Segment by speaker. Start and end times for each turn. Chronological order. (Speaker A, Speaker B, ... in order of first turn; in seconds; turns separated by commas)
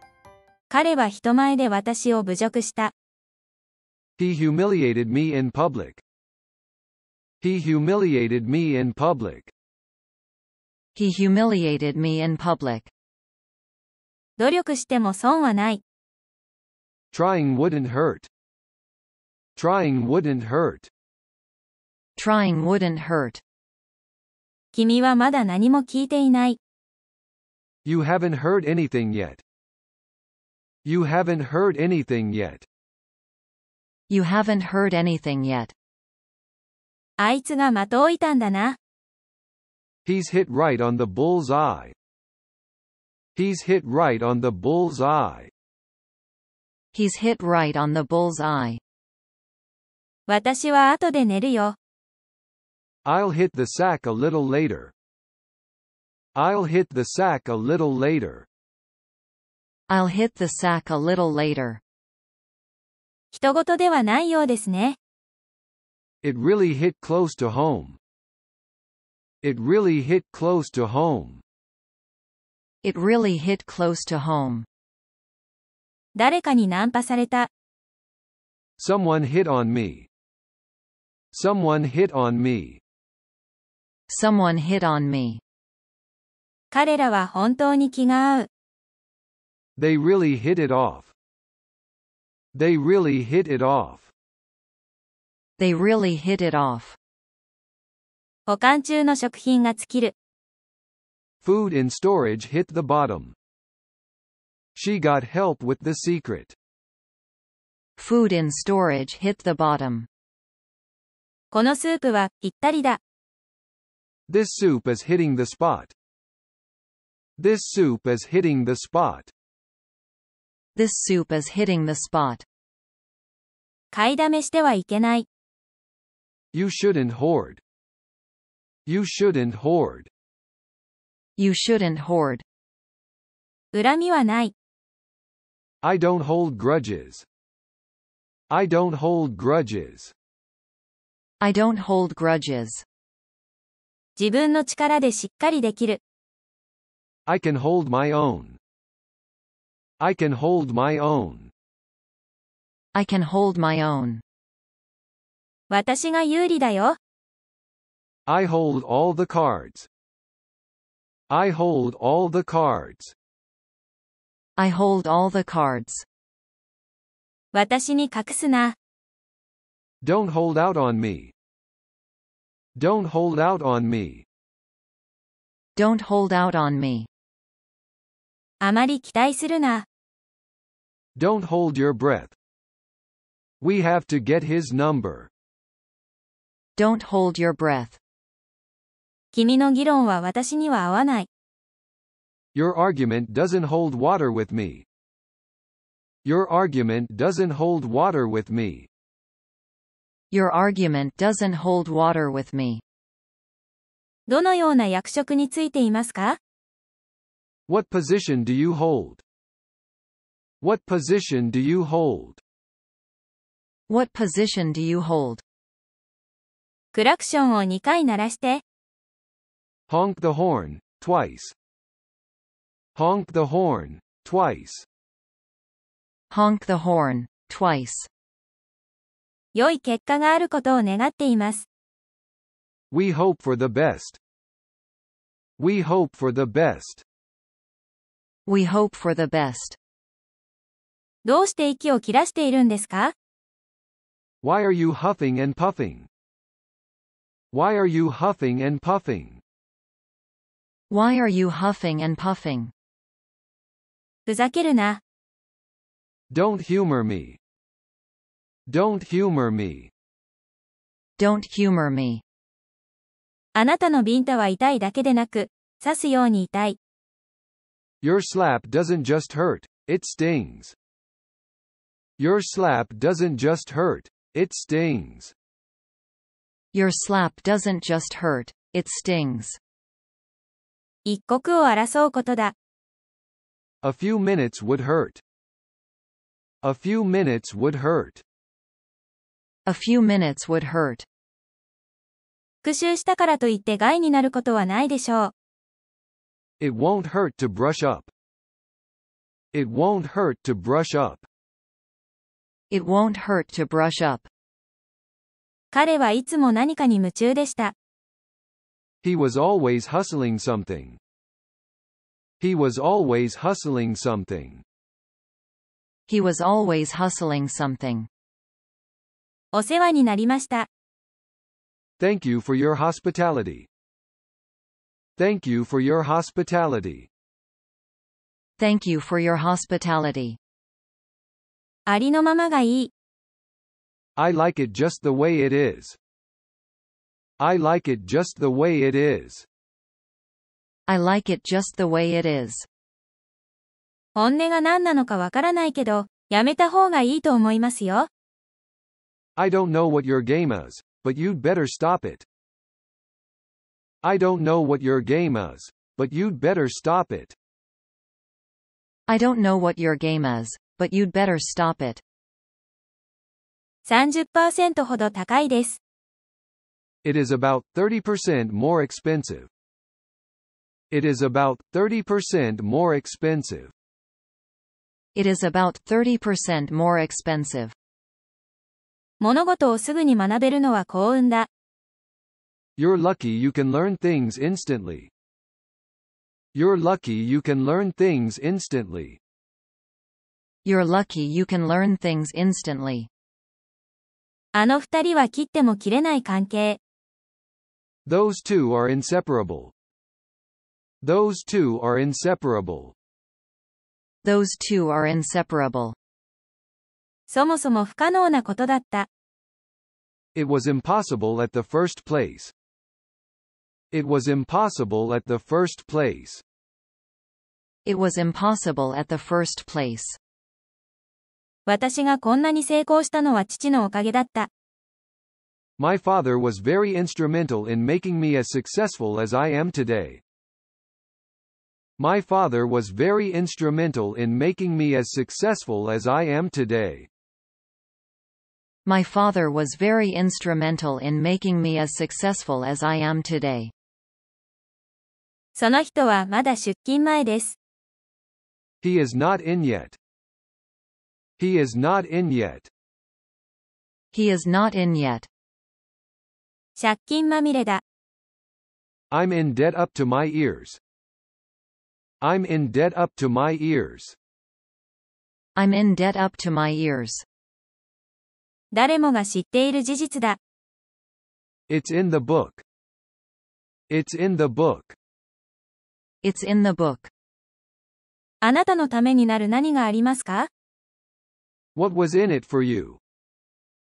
Speaker A: 0.7-2.9, Speaker B: 4.2-6.0, Speaker B: 7.4-9.5, Speaker C: 10.9-12.9, Speaker A: 14.4-15.8, Speaker B: 17.1-18.3, Speaker B: 19.6-20.9, Speaker C: 22.2-23.4, Speaker A: 24.7-26.6, Speaker B: 27.9-29.4, Speaker B: 30.9-32.7, Speaker C: 34.1-35.7, Speaker A: 37.2-38.8, Speaker B: 40.0-42.0, Speaker B: 43.4-45.5, Speaker C: 46.9-48.8, Speaker A: 50.3-51.8, Speaker B: 53.0-54.9, Speaker B: 56.4-58.5, Speaker C: 59.9-61.8, Speaker A: 63.3-65.0, Speaker B: 66.2-68.0, Speaker B: 69.4-71.4, Speaker C: 72.8-74.7, Speaker A: 76.2-77.5, Speaker B: 78.8-80.1, Speaker B: 81.3-82.8, Speaker C: 84.1-85.4, Speaker A: 86.7-88.5, Speaker B: 89.8-91.1, Speaker B: 92.5-94.1, Speaker C: 95.6-97.0, Speaker A: 98.5-100.1, Speaker B: 101.4-103.3, Speaker B: 104.8-106.5, Speaker C: 108.0-110.1, Speaker A: 111.5-113.0, Speaker B: 114.3-115.9, Speaker B: 117.4-119.3, Speaker C: 120.8-122.5, Speaker A: 123.9-125.2, Speaker B: 126.5-127.6, Speaker B: 128.9-130.1, Speaker C: 131.4-132.4, Speaker A: 133.7-134.5, Speaker B: 135.8-137.2, Speaker B: 138.5-140.1, Speaker C: 141.4-142.8, Speaker A: 144.2-146.0, Speaker B: 147.3-148.6, Speaker B: 150.0-151.5, Speaker C: 152.9-154.2, Speaker A: 155.7-157.0, Speaker B: 158.3-159.9, Speaker B: 161.3-163.1, Speaker C: 164.6-166.1, Speaker A: 167.5-168.8, Speaker B: 170.0-171.3, Speaker B: 172.8-174.3, Speaker C: 175.8-177.1, Speaker A: 178.6-179.8, Speaker B: 181.2-182.3, Speaker B: 183.6-185.3, Speaker C: 186.8-188.0, Speaker A: 189.3-191.3, Speaker B: 192.6-194.8, Speaker B: 196.2-198.9, Speaker C: 200.3-202.8, Speaker A: 204.3-206.4, Speaker B: 207.7-209.2, Speaker B: 210.6-212.4, Speaker C: 213.9-215.4, Speaker A: 216.9-218.6, Speaker B: 219.9-221.5, Speaker B: 222.9-224.9, Speaker C: 226.3-228.1, Speaker A: 229.6-231.7, Speaker B: 232.9-234.2, Speaker B: 235.6-237.0, Speaker C: 238.5-239.8, Speaker A: 241.2-243.1, Speaker B: 244.4-246.1, Speaker B: 247.5-249.4, Speaker C: 250.9-252.7, Speaker A: 254.3-255.0, Speaker B: 256.3-257.4, Speaker B: 258.7-259.9, Speaker C: 261.2-262.2, Speaker A: 263.6-266.8, Speaker B: 268.0-270.8, Speaker B: 272.2-275.3, Speaker C: 276.7-279.6, Speaker A: 281.1-282.5, Speaker B: 283.8-285.2, Speaker B: 286.6-288.2, Speaker C: 289.7-291.1, Speaker A: 292.6-295.3, Speaker B: 296.6-298.1, Speaker B: 299.5-301.2, Speaker C: 302.7-304.3, Speaker A: 305.7-307.7, Speaker B: 309.0-311.0, Speaker B: 312.4-314.6, Speaker C: 316.1-318.1, Speaker A: 319.5-320.7, Speaker B: 322.0-323.7, Speaker B: 325.2-327.1, Speaker C: 328.6-330.4, Speaker A: 331.9-332.9, Speaker B: 334.2-336.0, Speaker B: 337.4-339.5, Speaker C: 340.9-342.7, Speaker A: 344.2-348.1, Speaker B: 349.4-352.2, Speaker B: 354.0-357.4, Speaker C: 359.1-362.0, Speaker A: 363.9-365.8, Speaker B: 367.0-369.5, Speaker B: 370.9-373.7, Speaker C: 375.1-377.8, Speaker A: 379.2-381.5, Speaker B: 382.8-385.1, Speaker B: 386.5-389.2, Speaker C: 390.6-393.1, Speaker A: 394.6-396.8, Speaker B: 398.1-399.7, Speaker B: 401.0-402.9, Speaker C: 404.2-406.0, Speaker A: 407.3-409.1, Speaker B: 410.4-412.5, Speaker B: 413.9-416.4, Speaker C: 417.9-420.2, Speaker A: 421.7-424.5, Speaker B: 425.8-430.2, Speaker B: 432.0-437.1, Speaker C: 438.9-443.7, Speaker A: 445.6-447.6, Speaker B: 448.8-450.0, Speaker B: 451.4-452.7, Speaker C: 454.1-455.3, Speaker A: 456.8-457.8, Speaker B: 459.1-460.8, Speaker B: 462.2-464.2, Speaker C: 465.6-467.2, Speaker A: 468.7-470.4, Speaker B: 471.7-472.6, Speaker B: 473.9-474.9, Speaker C: 476.2-477.1, Speaker A: 478.4-480.5, Speaker B: 481.8-483.0